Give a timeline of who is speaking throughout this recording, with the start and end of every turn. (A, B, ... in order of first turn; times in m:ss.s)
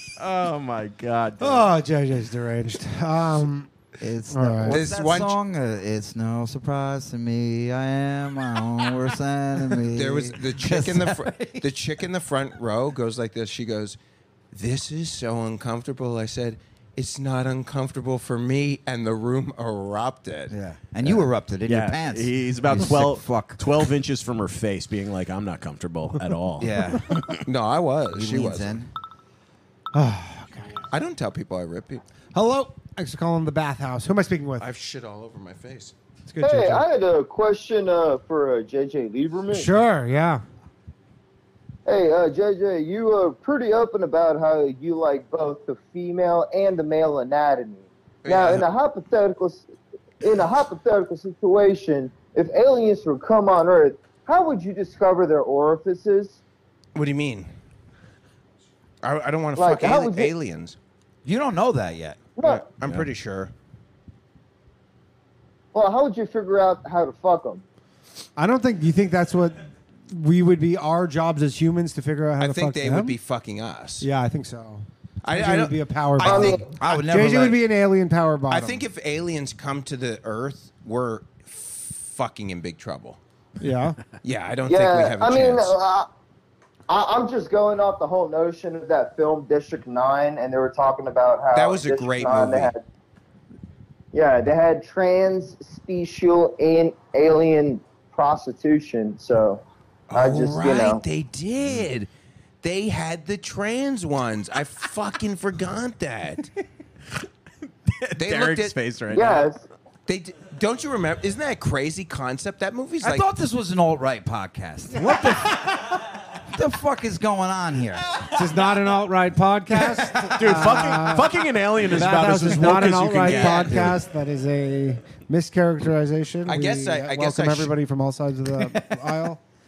0:00.2-0:01.7 A
0:01.4-0:03.7 B
0:04.0-0:11.6 C
0:04.3-0:04.8 B
0:04.7-0:05.4 D
0:09.9-0:14.0 D
0:14.5-0:20.5 D
0:20.5-0:23.6 C
0:21.7-0:26.7 A
0:26.6-0:27.3 C
0:27.5-0:28.8 D
0:28.1-0:28.9 C
0:29.9-0:30.8 B
0:30.9-0:32.0 D
0:32.3-0:34.7 B
0:34.6-0:35.9 D
0:36.3-0:36.8 B
0:36.4-0:39.7 E
0:39.5-0:40.4 B
0:41.9-0:49.7 E
0:48.2-0:48.7 D
0:50.2-0:56.4 E
0:57.0-0:57.5 D
0:59.0-1:00.8 D
0:59.6-1:00.3 E
1:01.2-1:02.2 C
1:02.4-1:02.7 E
1:02.4-1:03.5 D
1:05.7-1:07.6 E
1:08.4-1:13.2 B
1:12.4-1:14.1 D
1:14.0-1:18.8 B
1:15.2-1:16.6 D
1:16.2-1:16.6 E
1:16.7-1:17.6 C
1:18.5-1:23.2 D
1:23.6-1:24.0 B
1:24.2-1:25.8 D
1:24.7-1:26.1 E
1:26.9-1:32.8 E
1:31.5-1:32.7 D
1:34.1-1:41.0 E
1:40.1-1:42.1 D
1:42.6-1:46.5 D
1:47.9-1:49.5 A
1:48.2-1:48.8 D
1:49.1-1:49.6 E
1:50.1-1:53.3 D
1:53.0-1:55.7 C
1:54.9-1:55.9 B
1:56.5-1:58.1 C
1:58.3-2:01.3 B
2:00.4-2:04.0 A
2:01.9-2:09.4 B
2:06.5-2:07.7 D
2:08.7-2:09.0 C